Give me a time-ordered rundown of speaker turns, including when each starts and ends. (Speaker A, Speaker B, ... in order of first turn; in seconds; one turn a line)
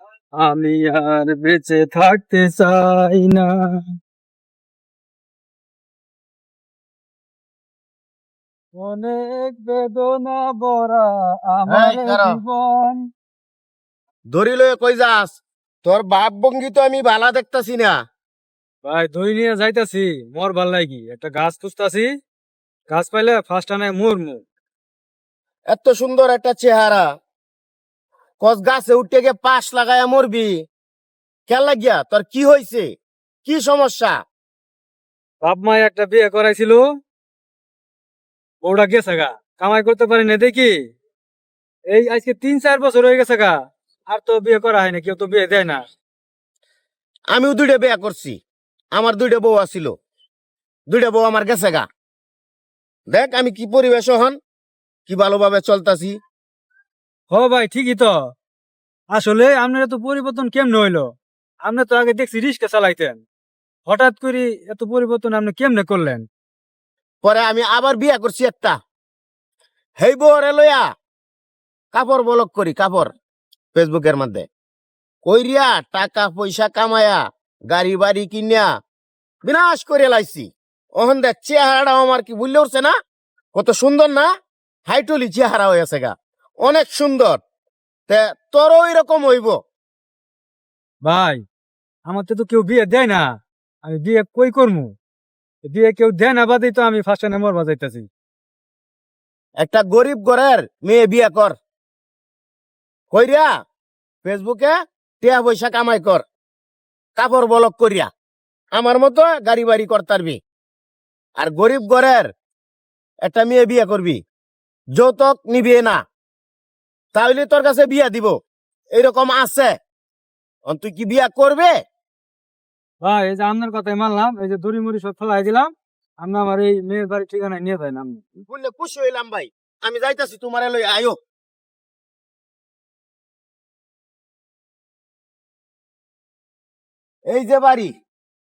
Speaker A: 0.4-3.8
Speaker A: 8.8-13.0
Speaker B: 11.7-12.4
Speaker B: 14.3-18.0
Speaker A: 18.8-22.1
Speaker A: 22.9-24.4
Speaker B: 25.7-27.1
Speaker B: 28.4-30.5
Speaker B: 31.5-32.9
Speaker B: 33.4-34.2
Speaker A: 35.4-36.8
Speaker A: 38.6-40.7
Speaker A: 41.9-43.5
Speaker A: 44.1-45.8
Speaker B: 47.3-48.4
Speaker B: 48.9-49.9
Speaker B: 50.9-51.8
Speaker B: 53.1-54.4
Speaker B: 55.1-56.2
Speaker A: 57.3-58.1
Speaker A: 59.1-61.1
Speaker A: 61.6-63.2
Speaker A: 63.9-66.3
Speaker B: 67.2-68.8
Speaker B: 70.0-70.9
Speaker B: 71.9-73.1
Speaker B: 73.7-74.5
Speaker B: 75.2-78.7
Speaker B: 79.4-82.9
Speaker B: 83.5-84.3
Speaker B: 84.9-87.4
Speaker B: 88.1-89.5
Speaker A: 91.0-91.4
Speaker A: 92.1-93.3
Speaker A: 93.8-94.9
Speaker A: 95.7-98.1
Speaker B: 99.6-101.5
Speaker B: 103.1-103.5
Speaker B: 104.2-106.2
Speaker B: 107.2-108.1
Speaker B: 108.8-110.4
Speaker B: 111.4-112.3
Speaker B: 113.2-114.2
Speaker B: 114.9-116.0
Speaker B: 117.1-118.3
Speaker B: 118.9-119.7
Speaker B: 120.7-121.7
Speaker A: 123.0-128.4
Speaker B: 128.5-131.2
Speaker B: 137.3-137.9